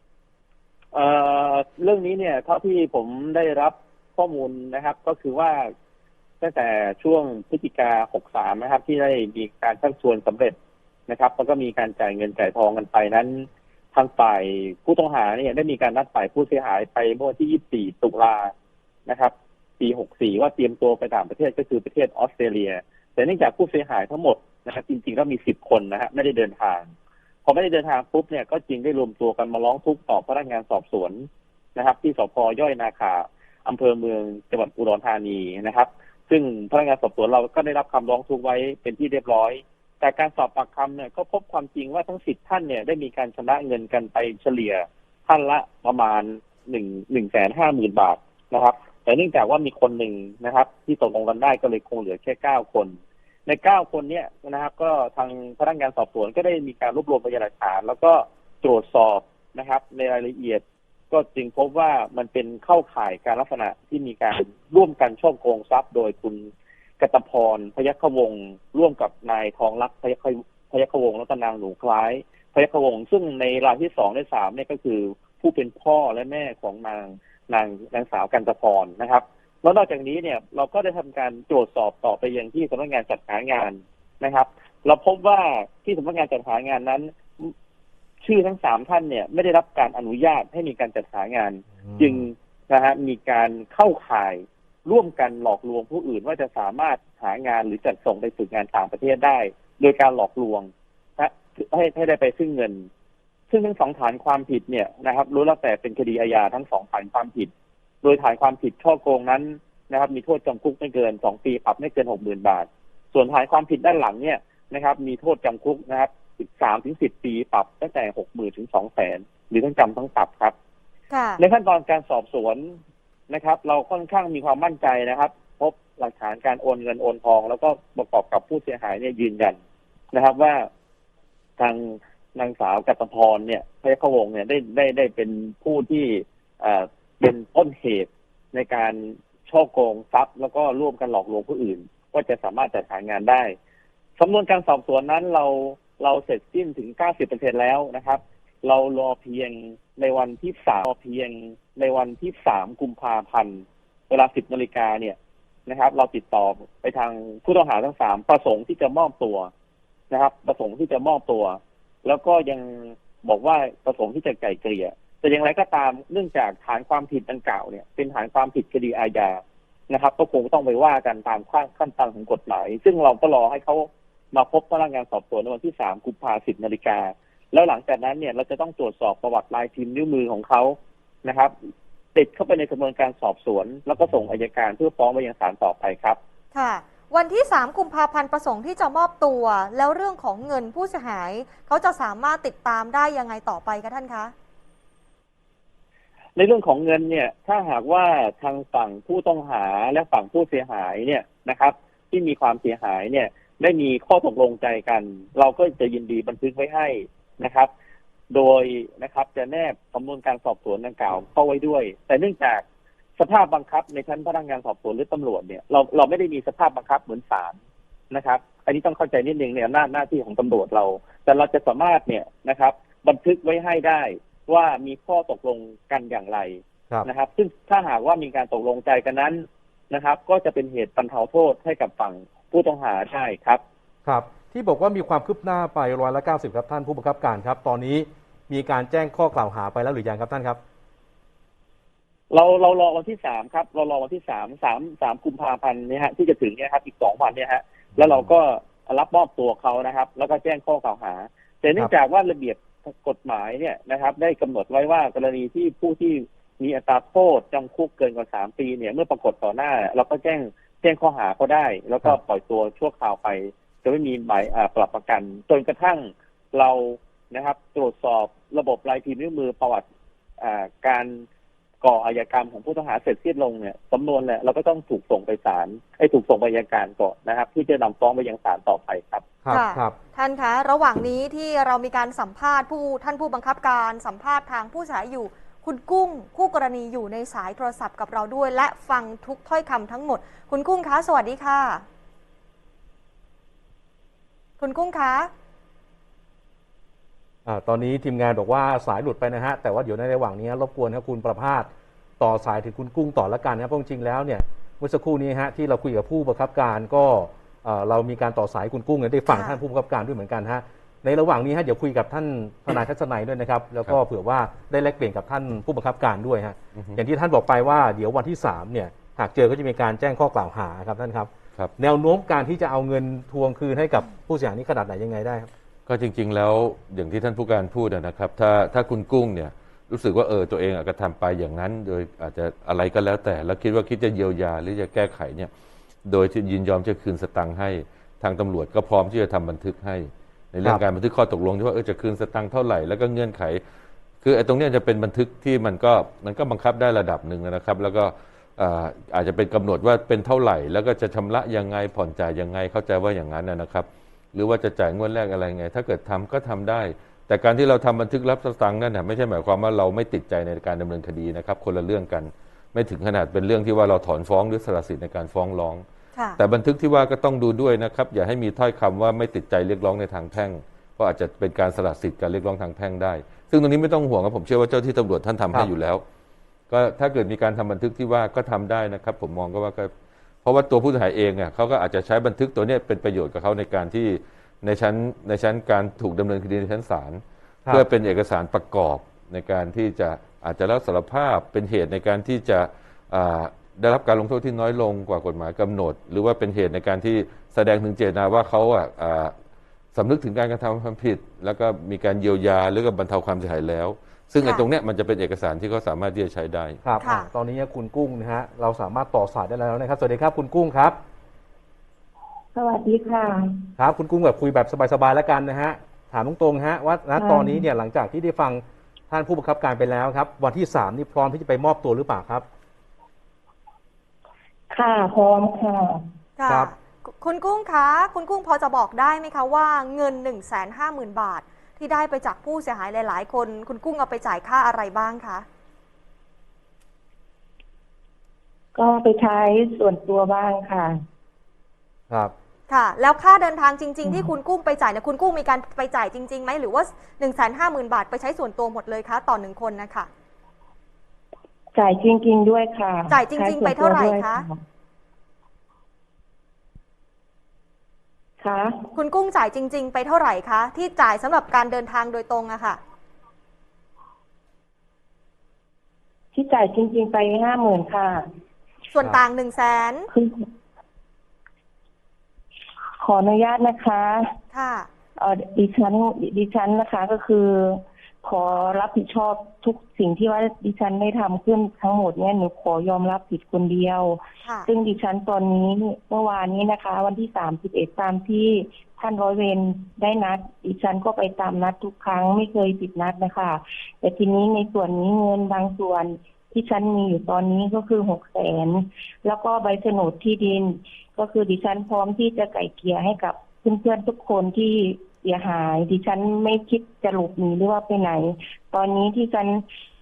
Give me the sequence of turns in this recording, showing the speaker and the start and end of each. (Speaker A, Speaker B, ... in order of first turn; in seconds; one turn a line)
Speaker A: 0.9-5.7
Speaker A: 6.4-10.6
Speaker A: 11.1-18.5
Speaker A: 19.1-26.9
Speaker A: 27.4-87.5
Speaker A: 88.2-102.9
Speaker B: 91.8-92.3
Speaker A: 103.5-107.5
Speaker A: 108.0-120.5
Speaker C: 121.1-121.4
Speaker A: 121.4-122.8
Speaker A: 123.3-129.6
Speaker A: 130.1-130.7
Speaker A: 131.6-143.6
Speaker A: 144.2-155.2
Speaker A: 155.7-159.5
Speaker A: 160.1-181.5
Speaker A: 182.1-186.2
Speaker C: 186.5-194.3
Speaker A: 196.4-207.7
Speaker A: 208.3-212.6
Speaker A: 213.2-217.6
Speaker A: 218.1-233.6
Speaker B: 234.1-240.6
Speaker A: 242.3-269.9
Speaker B: 247.9-248.3
Speaker A: 270.4-271.2
Speaker A: 271.8-279.3
Speaker B: 279.4-280.0
Speaker C: 279.5-291.8
Speaker C: 294.6-295.3
Speaker B: 297.4-325.5
Speaker C: 309.3-309.6
Speaker D: 316.7-317.0
Speaker D: 325.9-335.5
Speaker D: 336.0-343.6
Speaker D: 344.2-365.9
Speaker D: 366.4-376.0
Speaker D: 376.7-379.9
Speaker D: 380.4-399.4
Speaker D: 399.9-406.8
Speaker C: 404.4-404.7
Speaker B: 406.8-411.0
Speaker C: 407.0-407.3
Speaker E: 412.6-413.6
Speaker B: 413.8-422.4
Speaker E: 417.1-417.6
Speaker E: 424.7-426.0
Speaker C: 426.4-435.4
Speaker E: 438.8-441.0
Speaker C: 442.7-450.1
Speaker E: 444.1-444.3
Speaker E: 451.7-454.6
Speaker C: 453.1-454.4
Speaker E: 458.4-458.9
Speaker C: 458.9-462.8
Speaker E: 466.3-468.3
Speaker C: 468.9-470.1
Speaker E: 470.1-470.5
Speaker E: 473.0-474.4
Speaker C: 474.5-474.9
Speaker E: 475.2-509.6
Speaker C: 484.4-484.7